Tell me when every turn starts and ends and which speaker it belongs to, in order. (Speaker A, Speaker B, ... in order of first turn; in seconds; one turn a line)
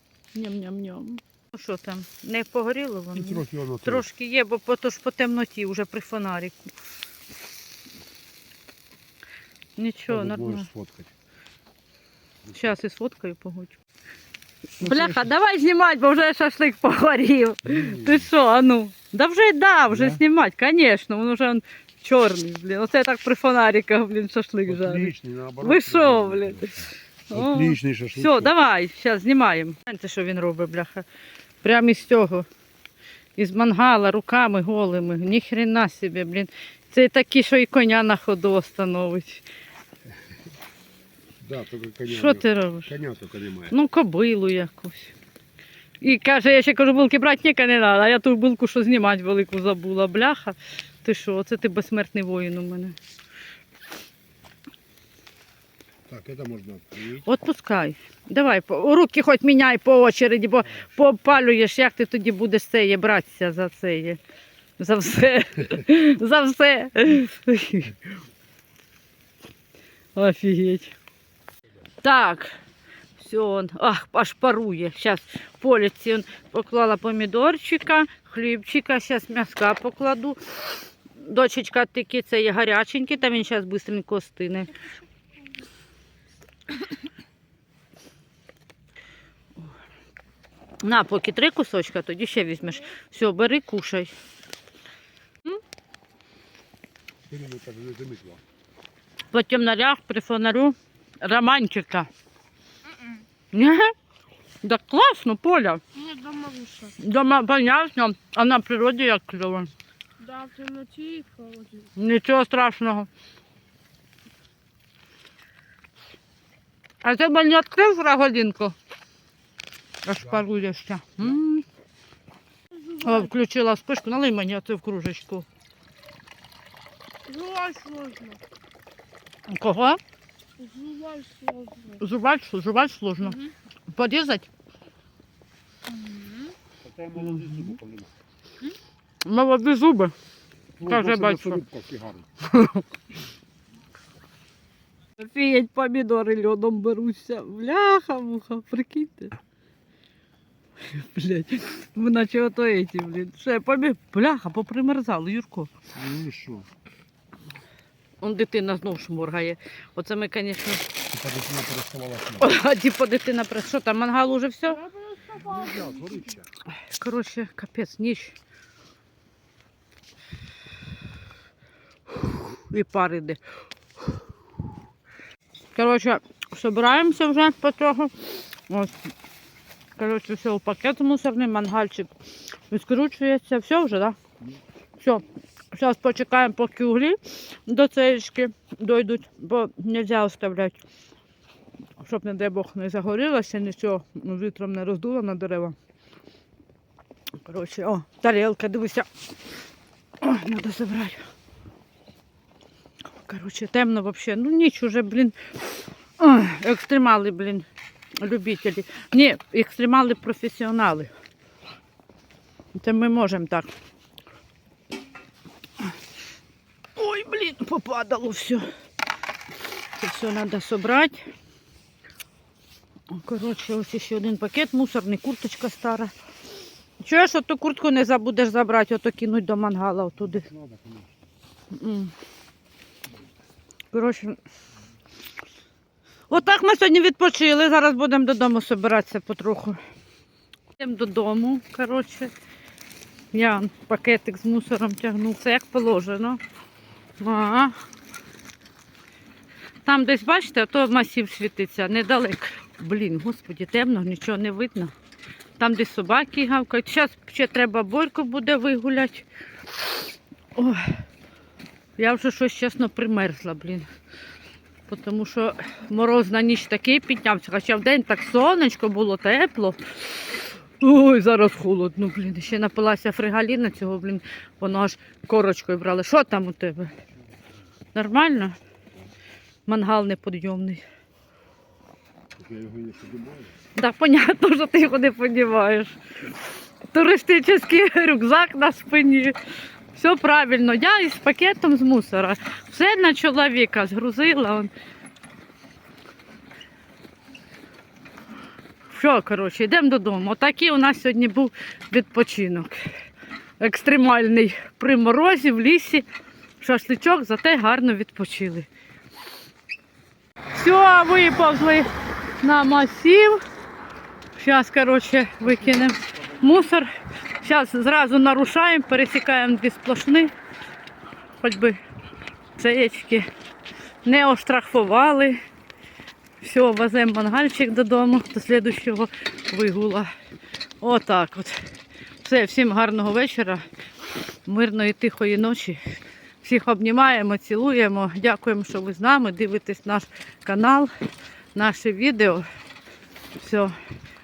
Speaker A: 0.3-6.7
Speaker B: 3.1-4.1
Speaker A: 9.8-10.7
Speaker B: 10.1-11.1
Speaker A: 12.5-13.8
Speaker A: 14.8-31.1
Speaker B: 14.8-15.2
Speaker B: 17.6-18.3
Speaker B: 19.9-20.2
Speaker B: 24.7-28.5
Speaker A: 31.6-32.5
Speaker A: 33.4-39.4
Speaker B: 41.4-43.8
Speaker A: 42.1-42.9
Speaker A: 43.7-45.1
Speaker A: 46.0-53.0
Speaker B: 56.1-57.2
Speaker A: 57.2-64.2
Speaker A: 64.8-68.0
Speaker A: 70.2-70.9
Speaker A: 72.0-72.6
Speaker A: 73.2-80.6
Speaker A: 81.2-84.8
Speaker A: 90.8-94.1
Speaker B: 97.3-98.4
Speaker A: 99.3-102.1
Speaker A: 103.5-103.9
Speaker A: 104.6-105.8
Speaker C: 106.0-106.9
Speaker A: 106.8-109.7
Speaker C: 110.2-111.9
Speaker A: 112.0-113.1
Speaker A: 117.0-118.8
Speaker A: 120.0-121.7
Speaker A: 122.9-125.5
Speaker C: 127.3-128.4
Speaker A: 129.5-130.0
Speaker C: 130.6-132.0
Speaker A: 132.0-134.5
Speaker C: 135.9-136.5
Speaker B: 136.8-138.1
Speaker A: 139.2-140.2
Speaker B: 140.8-142.3
Speaker A: 140.8-141.6
Speaker A: 142.4-142.8
Speaker A: 145.2-149.3
Speaker A: 150.8-155.7
Speaker B: 155.9-156.7
Speaker A: 158.2-160.9
Speaker B: 161.1-162.5
Speaker A: 162.4-164.9
Speaker B: 165.2-166.5
Speaker C: 165.3-166.1
Speaker A: 166.8-168.4
Speaker A: 172.1-173.4
Speaker A: 175.8-179.1
Speaker A: 180.0-182.1
Speaker A: 182.7-184.2
Speaker A: 185.0-190.8
Speaker A: 192.0-195.8
Speaker A: 197.4-199.1
Speaker A: 200.2-201.3
Speaker A: 203.2-205.5
Speaker A: 206.2-207.7
Speaker A: 208.2-211.1
Speaker A: 212.7-213.7
Speaker A: 217.0-218.7
Speaker A: 220.0-221.2
Speaker A: 223.1-226.1
Speaker A: 227.0-230.5
Speaker B: 230.4-231.0
Speaker A: 231.7-232.1
Speaker A: 233.9-234.4
Speaker A: 236.3-239.8
Speaker A: 240.8-242.3
Speaker A: 243.3-246.4
Speaker A: 247.2-247.8
Speaker A: 249.8-254.9
Speaker A: 255.6-259.3
Speaker A: 260.6-261.0
Speaker A: 262.0-263.9
Speaker A: 264.9-276.9
Speaker A: 277.9-278.6
Speaker A: 279.7-280.8
Speaker B: 282.4-283.5
Speaker A: 283.8-286.0
Speaker A: 286.9-289.4
Speaker A: 289.9-294.7
Speaker A: 298.9-302.9
Speaker A: 303.6-306.1
Speaker A: 306.6-308.7
Speaker A: 310.5-313.4
Speaker A: 314.4-316.9
Speaker A: 317.4-320.3
Speaker A: 321.4-321.8
Speaker A: 322.6-323.3
Speaker A: 324.0-325.4
Speaker A: 326.4-330.1
Speaker A: 330.8-331.7
Speaker A: 332.2-333.7
Speaker A: 334.5-340.9
Speaker A: 341.6-342.5
Speaker A: 343.4-343.8